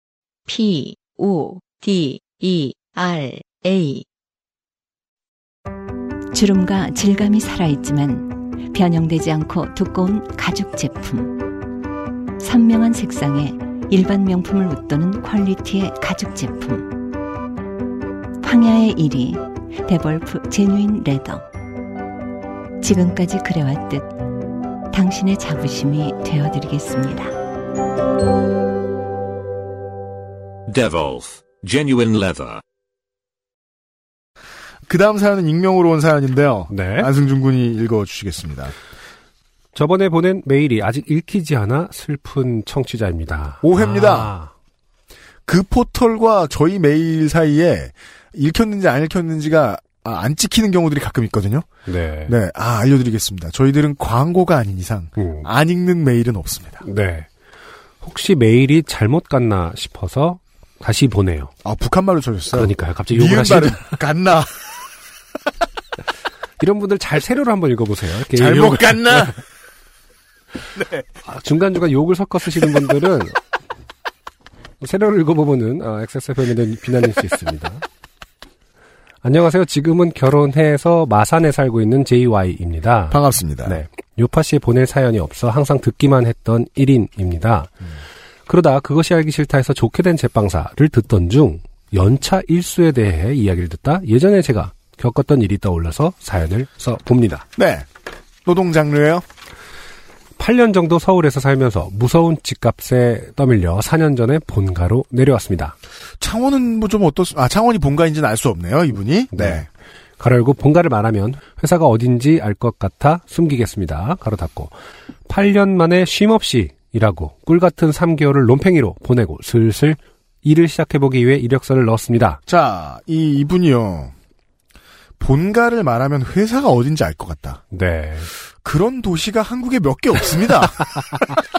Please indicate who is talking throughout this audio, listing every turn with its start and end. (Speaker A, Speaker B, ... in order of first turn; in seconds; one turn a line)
Speaker A: 0.5-4.0
Speaker B: 6.3-11.4
Speaker B: 12.4-16.9
Speaker B: 18.4-21.5
Speaker B: 22.8-24.1
Speaker B: 24.9-27.4
Speaker C: 30.7-32.6
Speaker D: 34.9-38.7
Speaker E: 36.7-37.1
Speaker E: 39.7-44.5
Speaker D: 43.6-44.3
Speaker D: 45.5-51.6
Speaker E: 51.9-52.4
Speaker D: 52.3-56.8
Speaker E: 55.2-55.5
Speaker E: 56.8-57.3
Speaker E: 58.0-61.5
Speaker D: 61.6-64.5
Speaker E: 62.5-63.9
Speaker E: 66.6-69.4
Speaker D: 68.3-69.4
Speaker D: 70.7-71.0
Speaker E: 71.2-73.3
Speaker E: 74.8-77.8
Speaker E: 79.2-87.8
Speaker D: 83.1-83.8
Speaker E: 88.5-97.4
Speaker D: 97.5-97.8
Speaker D: 98.4-99.2
Speaker E: 100.4-105.7
Speaker D: 106.2-109.7
Speaker E: 109.3-109.6
Speaker E: 110.2-114.7
Speaker E: 115.3-122.4
Speaker D: 122.5-124.1
Speaker D: 125.2-127.6
Speaker E: 127.7-128.3
Speaker D: 128.6-131.3